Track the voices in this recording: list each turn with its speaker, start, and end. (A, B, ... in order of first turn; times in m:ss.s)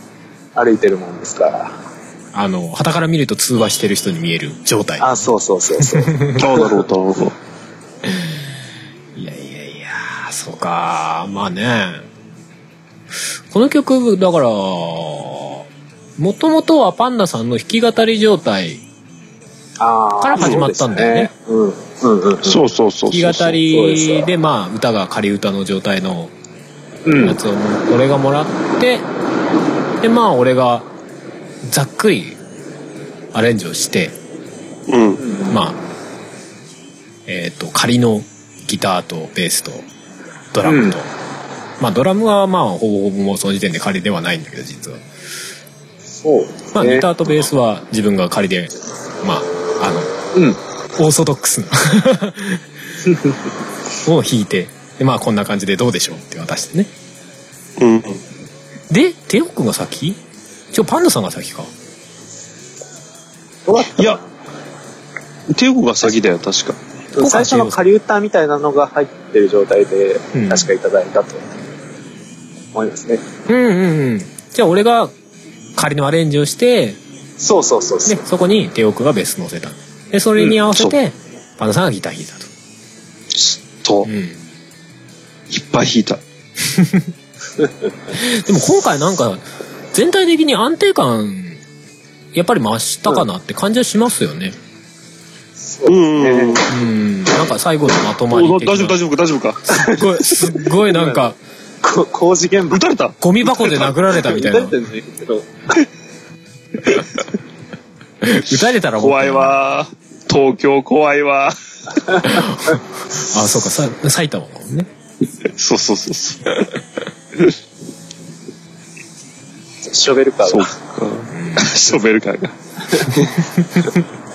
0:00.6-0:01.7 A
0:02.3-0:05.1 B
0:05.0-0:06.8 A
0:05.8-0:06.4 B
0:06.4-0:07.4 C
0:08.0-0:08.4 B
0:09.2-0:12.1 B
0:13.5-0:15.7 B
0:16.2-0:18.8 B
0:19.8-0:22.6 A
0:20.2-0:21.3 B
0:20.4-0:20.6 C
0:22.4-0:23.6 C
0:23.1-0:26.3 B
0:23.7-0:24.3 A
0:27.0-0:27.4 A
0:27.2-0:29.0 B
0:30.0-0:30.9 B
0:31.6-0:32.4 B
0:33.3-0:34.2 B
0:34.9-0:35.2 C
0:35.2-0:35.6 A
0:35.5-0:35.8 B
0:37.3-0:39.9 B
0:40.5-0:41.1 B
0:40.7-0:41.0 A
0:41.8-0:45.1 B
0:46.2-0:47.1 A
0:46.7-0:50.1 B
0:51.0-0:52.6 B
0:53.1-0:53.3 A
0:54.0-0:56.9 B
0:57.8-0:58.2 C
0:58.9-1:00.2 B
1:00.7-1:01.7 B
1:03.7-1:04.3 A
1:05.5-1:06.8 C
1:07.1-1:11.4 A
1:07.2-1:07.8 B
1:10.3-1:10.7 B
1:12.7-1:13.2 A
1:13.5-1:15.1 B
1:15.8-1:17.0 B
1:17.4-1:18.2 A
1:18.1-1:22.5 B
1:23.3-1:24.1 C
1:24.0-1:24.4 B
1:25.5-1:26.2 C
1:26.6-1:27.1 B
1:28.1-1:31.6 B
1:32.3-1:34.6 B
1:35.6-1:36.8 A
1:35.9-1:36.7 C
1:36.7-1:39.0 B
1:38.3-1:40.6 C
1:39.7-1:41.4 B
1:40.9-1:42.8 A
1:42.7-1:43.9 C
1:43.2-1:44.8 B
1:44.1-1:45.8 A
1:48.2-1:49.6 B
1:48.9-1:51.6 C
1:52.2-1:54.9 B
1:55.4-1:56.5 C
1:59.8-2:00.7 A
2:00.4-2:03.3 C
2:01.3-2:01.8 B